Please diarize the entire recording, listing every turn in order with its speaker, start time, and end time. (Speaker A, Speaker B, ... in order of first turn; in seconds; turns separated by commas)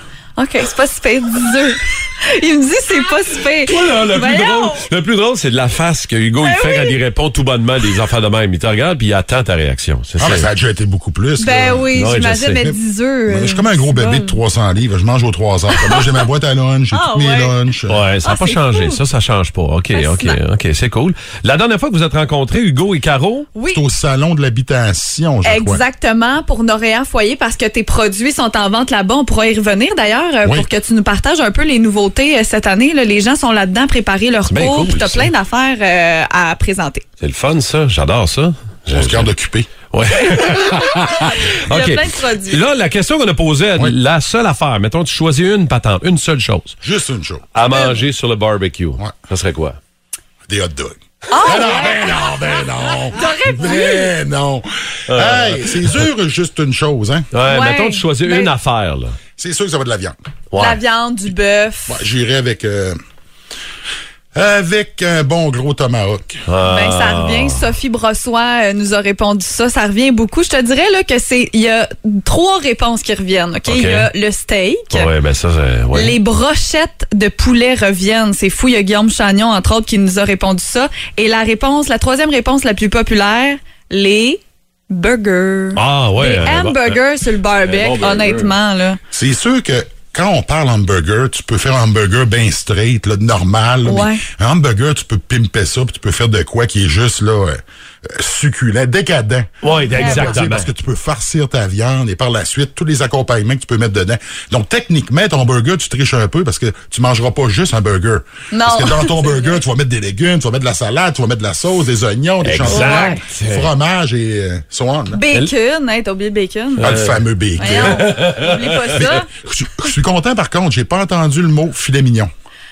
Speaker A: 0.4-4.9, Speaker B: 3.7-10.5, Speaker A: 6.4-7.0, Speaker C: 10.2-18.1, Speaker A: 11.4-14.4, Speaker B: 11.9-12.6, Speaker A: 15.7-16.2, Speaker A: 16.9-17.6, Speaker B: 17.9-23.5, Speaker A: 18.2-19.0, Speaker A: 19.9-20.4, Speaker A: 23.6-23.8, Speaker C: 23.7-25.8, Speaker A: 25.4-37.0, Speaker B: 34.5-35.3, Speaker B: 37.2-39.3, Speaker C: 38.9-39.7, Speaker B: 39.9-46.8, Speaker A: 40.4-42.6, Speaker C: 46.8-47.5, Speaker B: 47.5-49.8, Speaker A: 47.7-48.0, Speaker C: 50.5-57.3, Speaker A: 51.3-54.1, Speaker B: 55.1-56.0, Speaker B: 57.3-59.1, Speaker A: 57.5-58.5, Speaker C: 59.4-60.2, Speaker B: 60.5-60.8, Speaker A: 60.6-62.0, Speaker C: 61.9-63.0, Speaker C: 64.3-66.3, Speaker B: 66.5-67.7, Speaker A: 66.6-75.1, Speaker B: 73.7-74.1, Speaker B: 74.9-76.2, Speaker A: 75.9-89.0, Speaker B: 85.8-86.9, Speaker B: 87.6-88.5, Speaker C: 89.1-115.2, Speaker A: 93.8-94.2, Speaker B: 99.6-100.7, Speaker A: 99.8-100.4, Speaker A: 108.5-109.6, Speaker B: 112.4-113.7, Speaker A: 112.6-113.2, Speaker A: 115.1-116.9, Speaker B: 116.8-118.8, Speaker C: 116.8-118.1, Speaker A: 117.6-119.3, Speaker C: 118.9-122.3